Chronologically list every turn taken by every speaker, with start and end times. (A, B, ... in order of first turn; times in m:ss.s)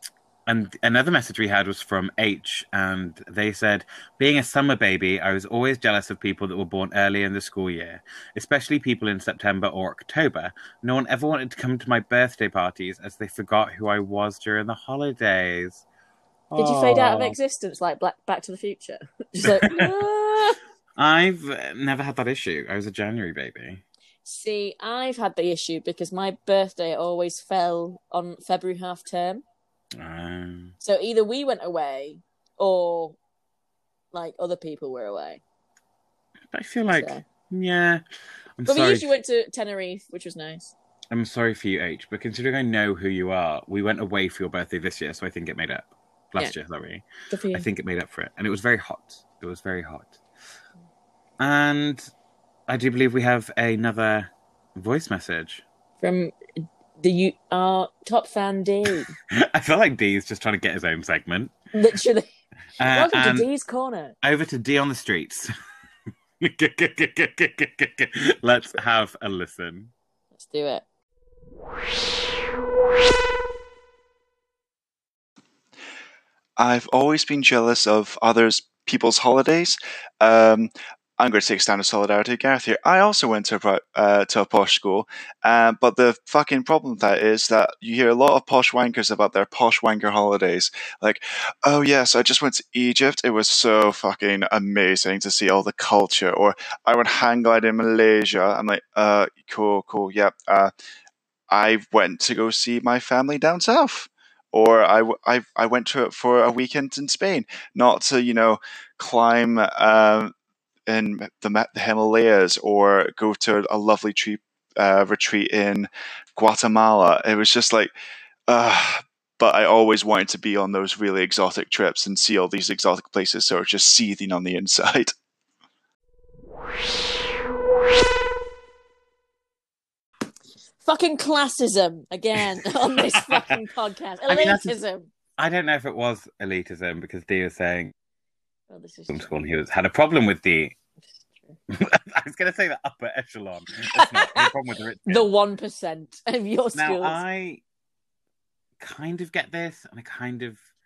0:00.5-0:15.8 A
0:16.5-0:17.4 A
0:16.6-0:20.6 B
0:19.4-0:19.9 A
0:21.0-0:23.8 A
0:24.2-0:29.4 B
0:30.0-0:30.7 A
0:30.8-0:33.2 B
0:34.1-0:35.4 B
0:36.5-0:38.0 A
0:36.9-0:37.2 B
0:38.6-0:39.1 A
0:38.7-0:40.7 B
0:41.1-0:50.2 A
0:47.3-0:47.7 B
0:51.4-0:52.0 A
0:52.7-0:55.6 A
0:56.0-0:59.1 B
0:58.9-1:01.5 A
1:01.7-1:02.3 B
1:02.8-1:03.5 A
1:02.9-1:04.2 B
1:04.2-1:05.5 A
1:06.4-1:09.9 A
1:10.4-1:10.8 B
1:16.6-1:40.7 C
1:41.5-1:50.3 C
1:50.9-1:57.9 C
1:58.5-2:05.1 C
2:10.8-2:15.1 B
2:13.0-2:13.4 A
2:14.3-2:14.8 A
2:15.4-2:17.9 A
2:18.7-2:19.3 B
2:19.1-2:20.8 A
2:21.7-2:25.3 A
2:24.0-2:24.5 B
2:25.1-2:27.2 B
2:26.7-2:27.6 A
2:28.8-2:30.6 A